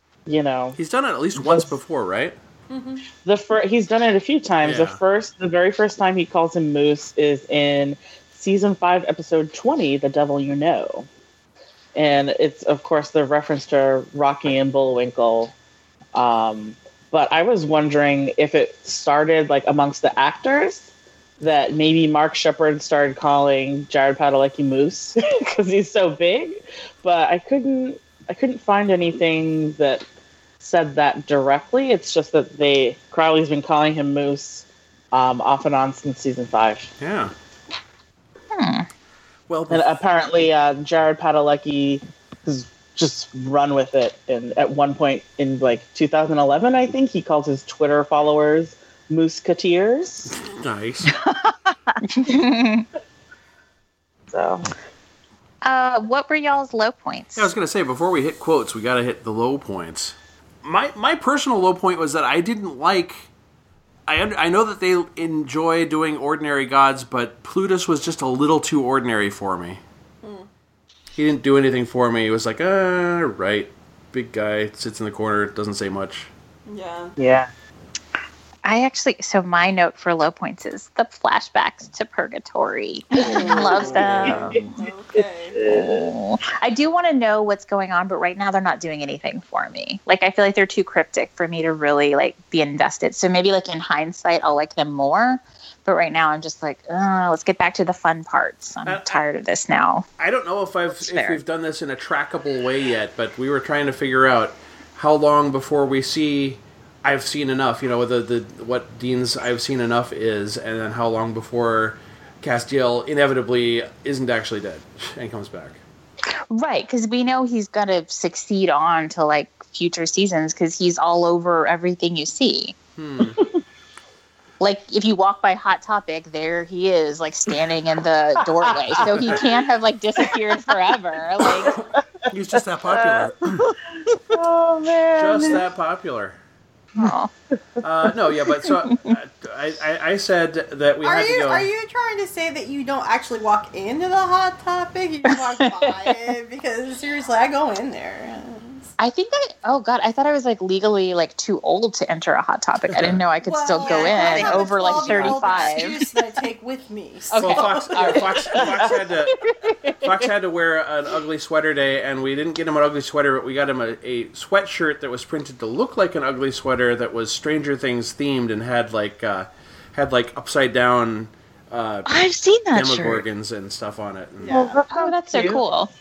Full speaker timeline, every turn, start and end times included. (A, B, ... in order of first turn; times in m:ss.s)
0:00.2-0:00.8 A
0:00.8-0:02.4 B
0:01.3-0:01.7 A
0:02.7-0:03.1 C
0:03.2-0:11.1 A
0:04.6-0:05.0 B
0:11.9-0:15.5 A
0:16.1-0:30.0 A
0:30.6-0:36.9 A
0:37.0-0:37.3 B
0:38.5-0:38.9 D
0:39.5-0:39.9 B
0:39.7-0:50.4 A
0:50.3-0:51.1 B
0:51.1-0:52.0 E
0:52.0-0:52.8 D
0:54.3-0:54.7 A
0:55.6-0:57.5 D
0:57.3-1:03.3 B
1:04.1-1:09.8 B
1:10.2-1:10.5 C
1:11.2-1:16.3 B
1:16.7-1:17.2 C
1:17.2-1:17.5 A
1:18.6-1:24.8 D
1:23.2-1:24.6 A
1:23.2-1:25.6 C
1:23.7-1:24.6 B
1:25.2-1:26.0 A
1:25.6-1:40.0 D
1:38.8-1:39.2 B
1:40.2-1:55.8 B
1:40.9-1:41.4 D
1:56.5-2:02.8 D
2:03.0-2:03.4 B
2:04.6-2:11.7 D
2:08.6-2:09.4 A
2:11.4-2:11.8 A
2:11.7-2:13.7 B
2:12.9-2:13.3 A
2:14.3-2:15.6 A
2:15.2-2:16.4 B
2:17.0-2:17.3 D
2:17.8-2:21.7 B
2:18.8-2:19.2 D
2:21.0-2:28.9 C
2:25.8-2:26.2 D
2:29.0-2:36.0 D
2:32.9-2:33.2 B
2:33.4-2:38.8 C
2:34.1-2:34.6 A
2:37.3-2:38.3 D
2:37.4-2:39.5 B
2:38.6-2:38.9 A
2:39.7-2:40.0 D
2:40.0-2:52.1 B
2:52.0-2:53.2 E
2:52.7-2:54.6 B
2:54.4-2:54.8 C
2:54.5-2:55.6 A
2:54.9-2:55.9 D